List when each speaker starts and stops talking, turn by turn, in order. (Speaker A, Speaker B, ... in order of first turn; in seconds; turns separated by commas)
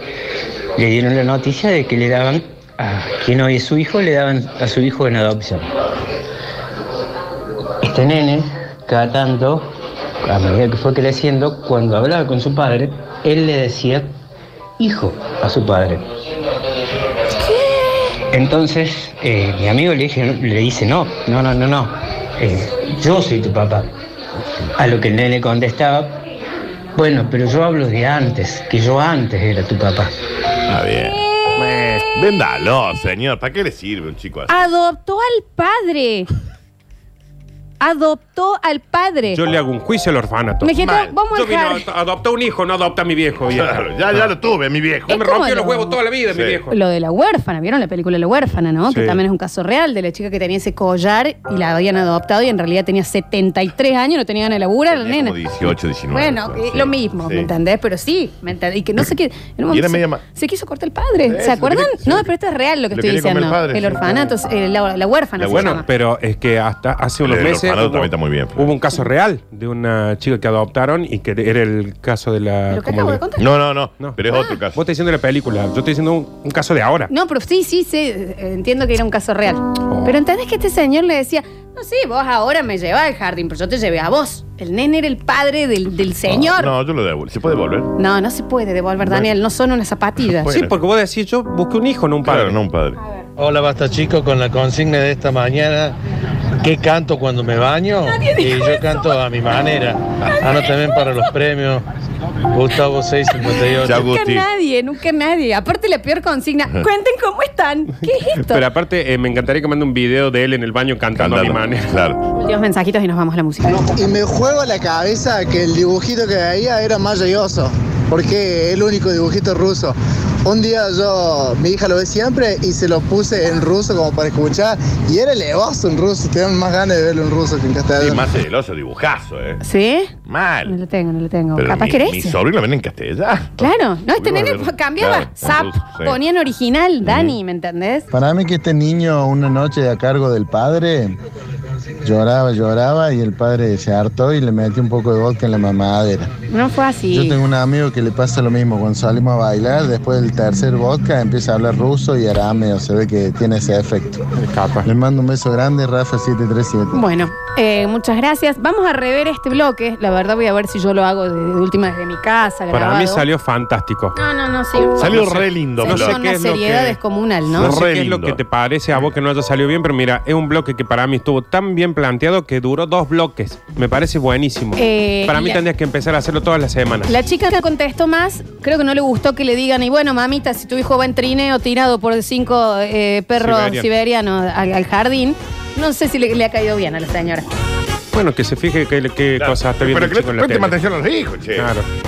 Speaker A: 0.8-5.7, Speaker A: 7.8-14.1, Speaker A: 14.8-16.1, Speaker A: 18.3-23.9, Speaker A: 24.8-26.1, Speaker A: 26.9-30.2, Speaker B: 30.7-31.3, Speaker C: 31.2-32.0, Speaker D: 31.6-32.1, Speaker B: 32.1-34.5, Speaker C: 34.5-36.3, Speaker C: 37.8-39.4, Speaker D: 39.3-40.8, Speaker C: 40.6-41.8, Speaker B: 40.8-41.2, Speaker D: 41.3-44.3, Speaker B: 43.5-45.2, Speaker C: 45.1-46.0, Speaker D: 45.1-46.8, Speaker B: 46.3-46.6, Speaker C: 46.7-55.4, Speaker D: 48.9-49.2, Speaker B: 54.9-57.5, Speaker C: 56.1-65.9, Speaker B: 59.7-60.2, Speaker B: 61.2-62.3, Speaker B: 62.9-64.3, Speaker B: 65.4-65.8, Speaker D: 65.5-73.2, Speaker B: 67.2-68.8, Speaker C: 72.7-73.5, Speaker B: 73.4-74.8, Speaker D: 74.7-77.1, Speaker C: 77.1-86.8, Speaker D: 79.9-80.2, Speaker B: 86.3-87.9, Speaker C: 88.0-90.5, Speaker B: 90.5-90.8, Speaker D: 90.5-92.6, Speaker B: 92.2-93.0, Speaker E: 93.4-96.0, Speaker E: 96.6-101.8, Speaker C: 98.0-99.2, Speaker C: 100.4-100.8, Speaker E: 102.5-104.0, Speaker C: 103.4-108.7, Speaker B: 103.8-104.5, Speaker D: 108.4-112.0, Speaker B: 111.2-112.2, Speaker C: 112.4-114.0, Speaker F: 113.9-119.9, Speaker F: 120.5-128.2, Speaker B: 128.0-129.6, Speaker C: 129.6-130.1, Speaker B: 130.2-130.8, Speaker C: 130.7-132.4, Speaker B: 131.6-136.2, Speaker C: 133.6-138.1, Speaker B: 137.1-137.4, Speaker G: 138.1-141.1, Speaker G: 142.0-146.3, Speaker C: 146.5-147.4, Speaker G: 147.1-154.2, Speaker D: 154.4-154.9, Speaker G: 154.8-157.0, Speaker C: 156.9-163.2, Speaker D: 162.7-164.2, Speaker C: 164.2-165.2, Speaker B: 165.0-166.2, Speaker D: 165.0-177.1, Speaker C: 165.8-167.8, Speaker B: 167.6-168.4, Speaker C: 174.8-175.6, Speaker C: 177.1-187.4, Speaker D: 183.4-183.9, Speaker D: 188.1-190.8, Speaker B: 189.4-191.7, Speaker D: 191.6-191.9